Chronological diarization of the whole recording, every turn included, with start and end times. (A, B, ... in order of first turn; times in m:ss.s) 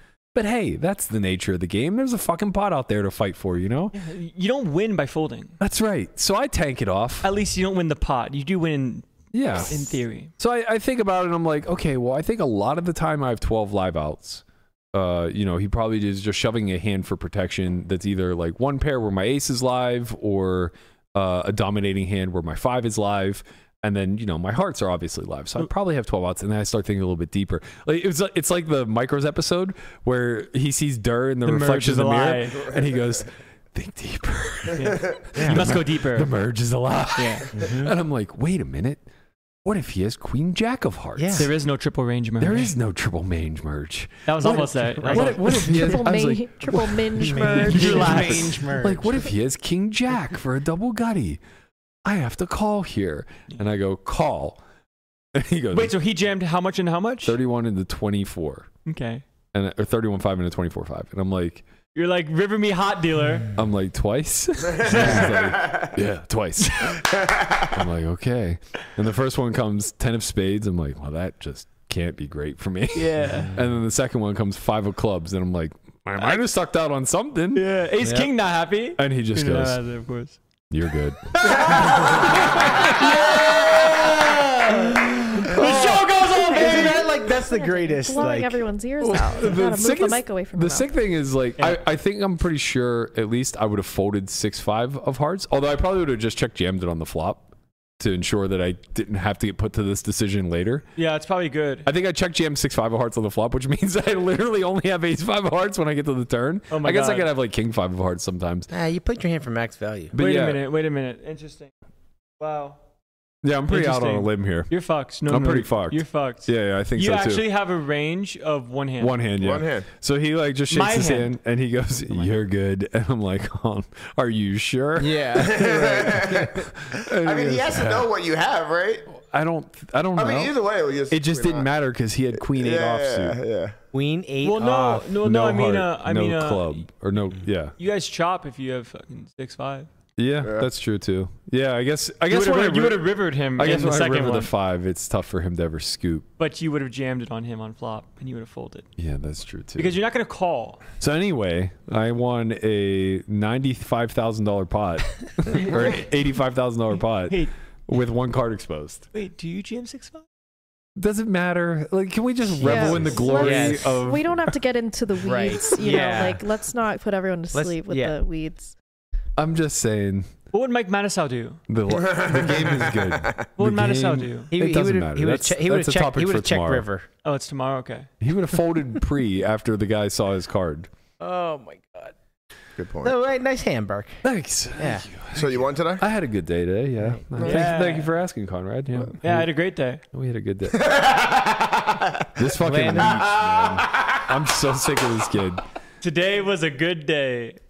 0:00.3-0:04.0 A
0:03.9-0:05.5 B
0:05.6-0:07.3 A
0:07.2-0:09.1 B
0:09.3-0:39.0 A
0:09.6-0:10.3 B
0:31.4-0:32.7 B
0:34.7-0:36.3 B
0:35.4-0:35.6 C
0:37.2-0:37.5 B
0:37.5-0:37.9 C
0:39.6-0:41.5 A
0:41.2-0:41.5 C
0:41.3-0:42.7 B
0:42.4-0:51.4 A
0:44.3-0:46.0 B
0:44.5-0:45.3 C
0:45.6-0:48.3 D
0:47.2-0:49.0 C
0:47.7-0:48.7 B
0:52.0-0:54.6 A
0:55.3-0:55.9 A
0:55.7-0:57.4 B
0:57.2-0:58.7 A
0:58.8-0:59.2 B
0:59.5-1:01.6 A
1:01.9-1:03.5 B
1:03.6-1:07.1 A
1:04.8-1:05.3 B
1:05.1-1:05.9 E
1:07.2-1:07.6 E
1:07.6-1:17.6 A
1:12.9-1:13.5 B
1:17.5-1:20.4 B
1:18.0-1:18.3 C
1:19.0-1:19.8 A
1:20.7-1:23.1 A
1:21.5-1:27.1 B
1:21.9-1:22.2 C
1:25.5-1:26.1 A
1:26.4-1:28.6 C
1:26.6-1:30.9 D
1:29.0-1:40.8 A
1:41.0-1:41.9 B
1:41.8-1:48.7 A
1:46.7-1:47.3 B
1:48.7-1:50.2 C
1:50.1-1:50.6 A
1:50.2-1:51.7 B
1:52.4-1:52.8 B
1:53.4-1:54.7 A
1:53.7-1:59.2 B
1:55.2-1:57.4 A
1:59.0-2:05.6 A
1:59.4-1:59.9 E
2:00.7-2:01.3 B
2:05.0-2:06.3 C
2:05.4-2:09.1 E
2:06.8-2:08.1 A
2:09.1-2:10.5 A
2:10.2-2:11.7 E
2:11.1-2:13.4 A
2:12.5-2:13.8 E
2:13.9-2:15.1 C
2:14.4-2:16.8 B
2:15.2-2:17.7 A
2:17.8-2:19.9 B
2:20.2-2:26.2 A
2:20.4-2:20.7 E
2:22.3-2:24.5 B
2:26.4-2:28.9 B
2:29.0-2:30.0 A
2:29.8-2:30.8 B
2:31.0-2:39.0 A
2:35.5-2:36.1 B
2:39.1-2:40.2 B
2:41.0-2:44.3 A
2:42.6-2:43.9 C
2:42.6-2:48.7 D
2:45.2-2:46.4 C
2:47.5-2:48.1 C
2:49.4-2:50.3 A
2:50.5-2:51.6 B
2:51.7-2:56.8 A
2:51.9-2:53.4 E
2:53.6-2:54.5 B
2:54.5-2:57.1 C
2:57.2-2:58.1 B
2:58.2-3:00.9 A
3:01.2-3:02.1 C
3:02.8-3:03.2 E
3:03.0-3:04.2 C
3:04.2-3:09.5 A
3:04.8-3:05.0 C
3:05.3-3:06.0 E
3:07.4-3:07.7 E
3:07.4-3:08.1 B
3:09.2-3:10.0 B
3:10.1-3:10.9 A
3:10.8-3:12.3 E
3:12.4-3:15.6 A
3:12.6-3:13.2 C
3:13.0-3:14.2 E
3:16.0-3:17.6 B